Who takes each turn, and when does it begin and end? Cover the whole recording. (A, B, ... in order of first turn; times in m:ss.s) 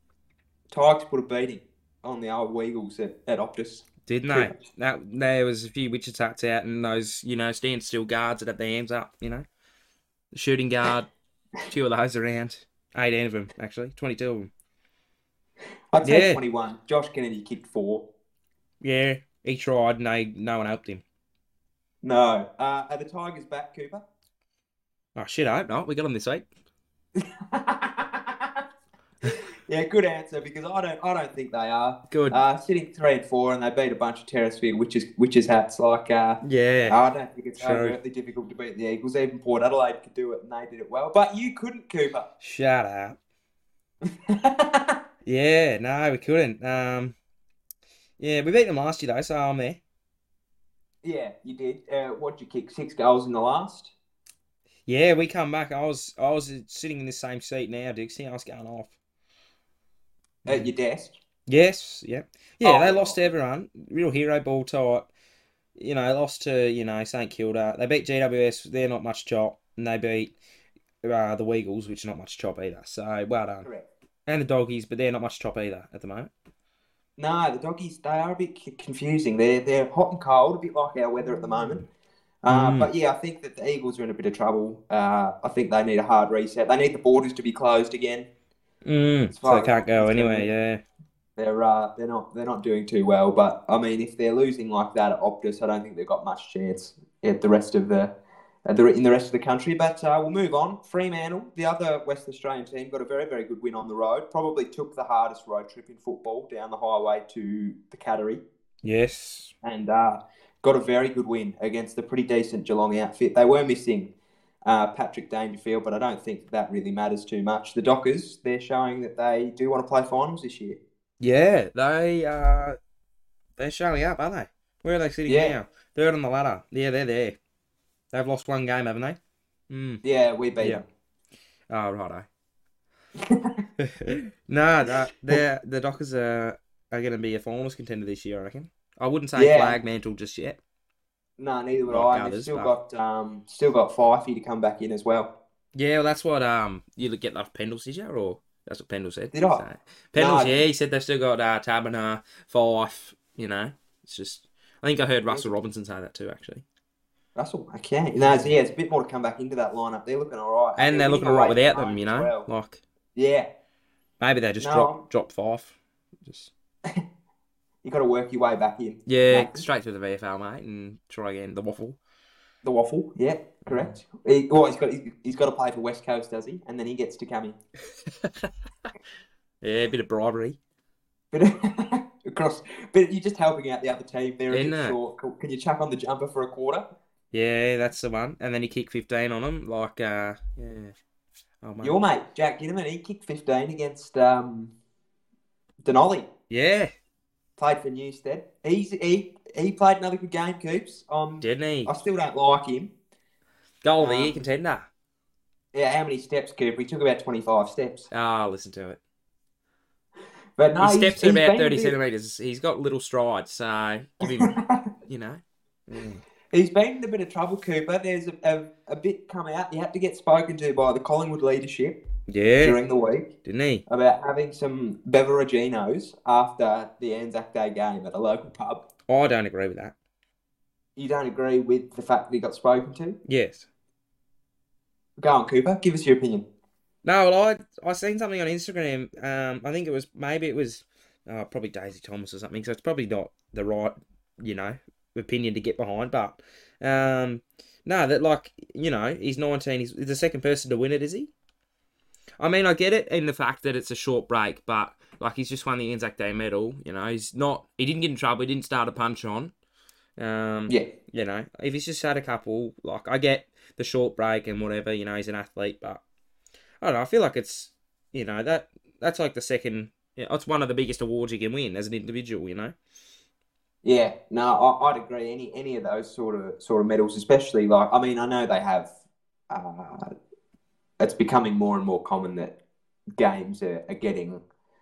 0:00.7-0:04.6 A
0:04.0-0:09.4 B
0:10.3-0:11.1 B
0:11.7-0:14.5 B
0:15.9-0:18.0 A
0:16.0-0:16.4 B
0:18.8-0:21.0 B
0:22.0-0:24.0 A
0:25.1-0:26.5 B
0:27.2-0:28.6 A
0:29.2-0:42.3 A
0:32.1-0:32.4 B
0:36.4-0:37.0 B
0:37.6-0:38.0 B
0:42.4-0:43.2 B
0:44.0-0:45.0 A
0:45.2-0:47.1 B
0:48.2-0:49.8 B
0:51.0-0:53.9 A
0:54.9-0:58.9 B
1:00.5-1:01.2 A
1:01.5-1:05.1 B
1:02.6-1:03.2 A
1:05.8-1:10.4 B
1:11.0-1:13.6 B
1:14.2-1:16.3 B
1:17.2-1:21.8 A
1:22.4-1:28.3 A
1:22.5-1:22.9 B
1:28.8-1:30.8 B
1:29.3-1:30.5 A
1:31.4-1:38.1 A
1:38.6-1:48.4 A
1:48.8-1:49.5 B
1:49.6-1:54.1 A
1:54.6-2:00.8 A
2:01.2-2:02.8 B
2:03.6-2:07.4 B
2:05.3-2:05.6 A
2:08.1-2:09.2 B
2:09.7-2:10.0 B
2:10.0-2:10.8 A
2:11.7-2:12.3 B
2:13.2-2:13.6 A
2:13.8-2:20.6 B
2:19.4-2:19.8 A
2:21.4-2:25.3 A
2:21.9-2:22.7 B
2:25.7-2:36.6 B
2:29.3-2:29.6 A
2:30.2-2:30.6 A
2:37.4-2:42.5 A
2:38.2-2:38.5 B
2:40.8-2:42.8 B
2:43.1-2:43.5 A
2:44.2-2:46.5 B
2:44.6-2:45.0 A
2:47.8-2:49.6 A
2:49.1-2:52.0 B
2:52.6-2:57.6 A
2:53.6-2:53.9 B
2:58.0-2:58.5 B
2:59.6-3:00.6 B
3:01.3-3:06.8 A
3:04.5-3:05.0 B
3:07.3-3:10.9 B
3:11.6-3:12.0 B
3:11.8-3:14.7 A
3:15.8-3:16.3 A
3:16.5-3:16.9 B
3:17.6-3:22.9 A
3:21.4-3:21.9 B
3:23.8-3:24.9 B
3:24.0-3:24.4 A
3:25.7-3:28.1 A
3:28.1-3:29.0 B
3:30.6-3:31.9 A
3:30.8-3:36.2 B
3:34.5-3:34.8 A
3:36.5-3:42.0 A
3:42.3-3:42.8 B
3:42.6-3:43.3 A
3:43.4-3:43.8 B
3:43.9-3:48.8 A
3:49.1-3:49.9 B
3:51.0-3:53.2 A
3:53.2-3:53.6 B
3:55.2-3:56.4 A
3:57.0-4:11.3 B
4:12.4-4:19.5 B
4:20.2-4:26.0 B
4:26.8-4:32.7 B
4:33.8-4:38.9 A
4:39.5-4:40.0 A
4:41.0-4:42.5 A
4:43.2-4:44.4 A